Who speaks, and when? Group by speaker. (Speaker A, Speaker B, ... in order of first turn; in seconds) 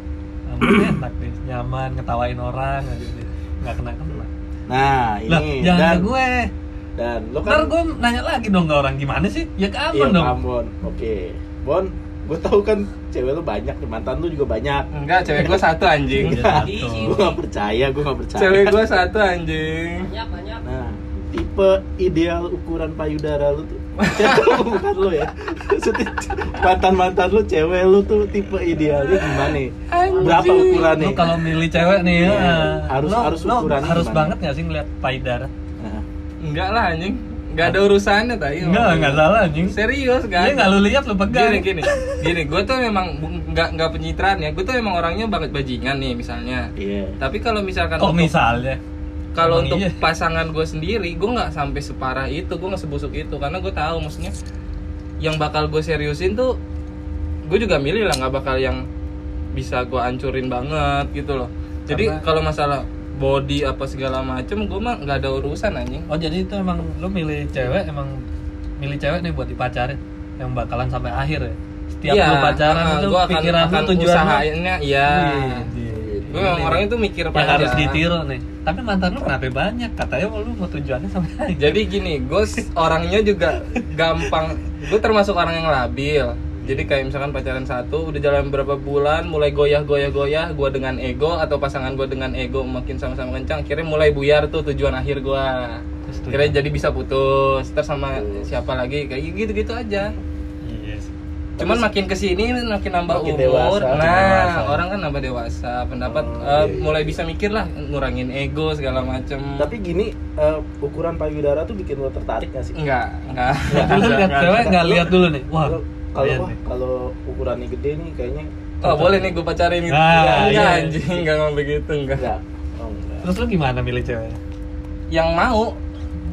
Speaker A: 0.5-4.3, 5.3-6.5, 7.4-10.4, 16.2-17.2, 30.8-35.5, 38.6-39.8, 40.4-42.0, 48.0-48.8, 49.4-50.0, 61.9-62.2, 66.1-68.2, 68.8-74.5, 75.0-81.8, 86.6-86.9, 96.1-96.6, 100.6-101.1, 103.9-104.8, 113.7-116.6, 118.8-119.3, 119.9-121.0, 123.2-124.4
Speaker B: 0.7-0.9, 4.7-6.1, 7.0-7.7, 9.9-15.6, 16.2-18.8, 20.6-31.4, 32.0-34.3, 35.8-36.0, 46.8-47.2, 75.9-76.6, 98.2-98.4, 101.6-101.8, 103.1-104.2, 106.0-107.0, 109.6-112.8, 113.7-118.5, 120.3-120.7, 122.2-123.3
Speaker C: 14.9-16.4, 18.4-20.1, 24.0-24.6, 29.9-31.1, 36.4-40.8, 41.3-48.3, 49.3-54.3, 55.2-56.6, 57.5-58.9, 59.5-66.1, 72.1-75.7, 76.3-78.0, 81.6-100.2, 101.6-109.7, 112.8-115.0, 118.8-122.3, 125.1-125.8
Speaker D: 16.4-17.4, 20.0-20.6, 30.1-31.1